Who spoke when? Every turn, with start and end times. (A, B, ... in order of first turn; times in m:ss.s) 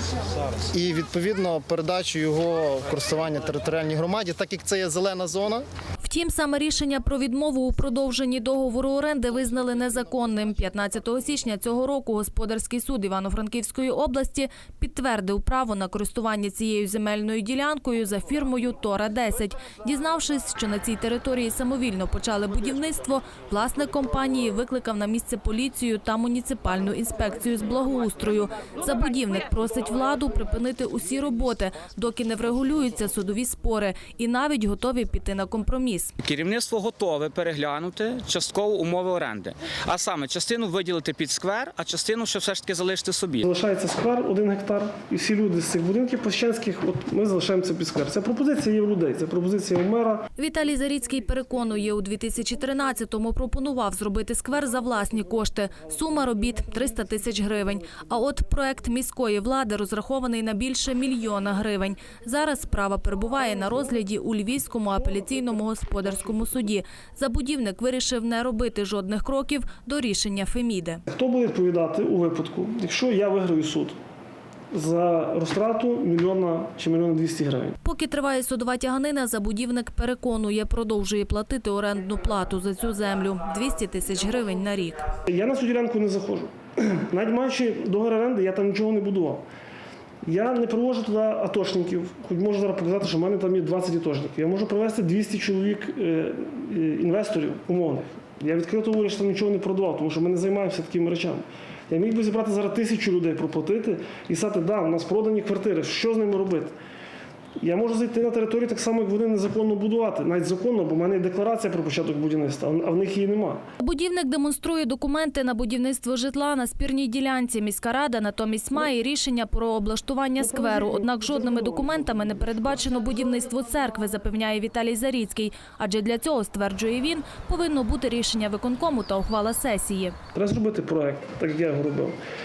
0:00.7-0:05.6 A
0:06.0-0:36.1 B
0:36.2-0:43.4 C
0:43.4-0:50.3 D
0:50.4-1:11.0 B
1:11.1-1:14.0 D
1:14.7-1:17.8 D
1:17.8-1:25.0 B
1:25.3-1:29.4 D
1:30.2-1:46.8 D
1:47.6-1:53.6 D
1:53.8-2:10.2 B
2:00.4-2:02.7 D
2:10.4-2:12.2 D